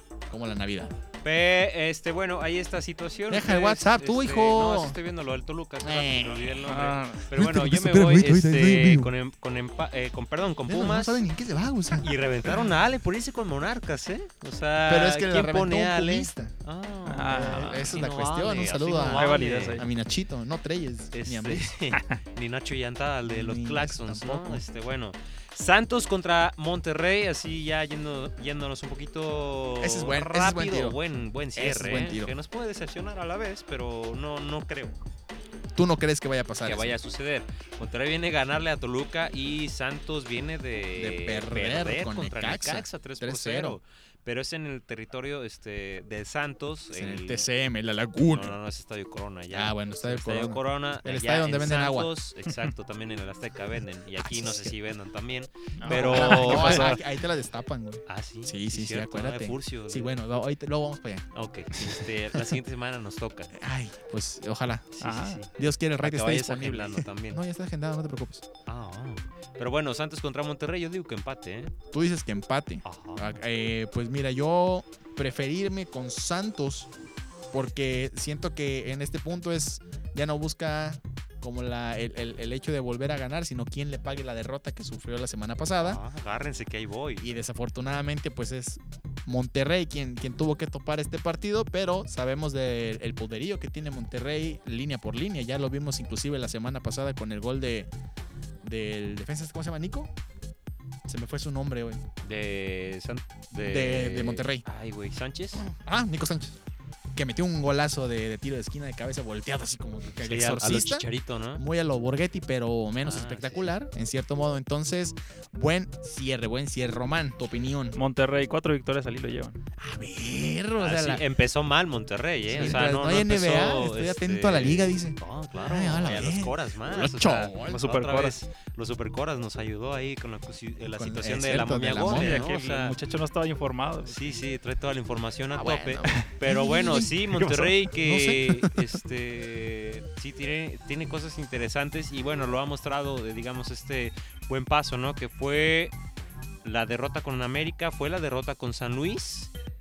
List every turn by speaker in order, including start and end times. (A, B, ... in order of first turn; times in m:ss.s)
0:00.3-0:00.9 A
0:01.2-0:11.2 B
0:03.3-0:05.0 A
0:05.8-0:06.6 A
0:06.6-0:07.2 C
0:07.3-0:09.1 A
0:10.7-0:12.7 A
0:12.0-0:19.8 B
0:14.9-0:16.5 A
0:17.1-0:18.0 C
0:17.3-0:21.7 A
0:19.0-0:19.9 C
0:21.1-0:35.0 B
0:23.2-0:24.6 A
0:29.8-0:31.0 A
0:31.6-0:32.3 A
0:35.7-0:36.9 A
0:36.6-0:47.4 B
0:40.9-0:43.8 A
0:46.9-0:48.6 A
0:48.2-0:57.0 B
0:49.5-0:52.1 A
0:54.2-0:54.7 A
0:55.8-0:57.0 C
0:55.8-1:01.3 A
0:58.0-1:00.2 B
1:01.3-1:03.6 B
1:03.5-1:05.0 A
1:04.9-1:07.4 B
1:05.0-1:05.4 C
1:05.5-1:08.4 A
1:08.7-1:11.7 B
1:11.9-1:16.9 A
1:12.8-1:13.4 B
1:17.5-1:26.0 A
1:25.8-1:27.4 B
1:27.2-1:37.9 A
1:38.6-1:40.1 A
1:41.0-1:42.0 A
1:42.2-1:45.6 B
1:43.6-1:44.6 A
1:45.6-1:46.6 A
1:47.1-1:58.0 A
1:50.2-1:51.6 B
1:53.0-1:53.7 B
1:57.9-1:59.6 C
1:59.8-2:01.2 A
2:00.8-2:13.0 B
2:02.5-2:07.8 A
2:02.6-2:02.8 C
2:07.6-2:08.4 C
2:10.9-2:12.4 A
2:12.0-2:14.4 C
2:14.0-2:25.9 B
2:15.5-2:18.9 A
2:26.6-2:29.5 B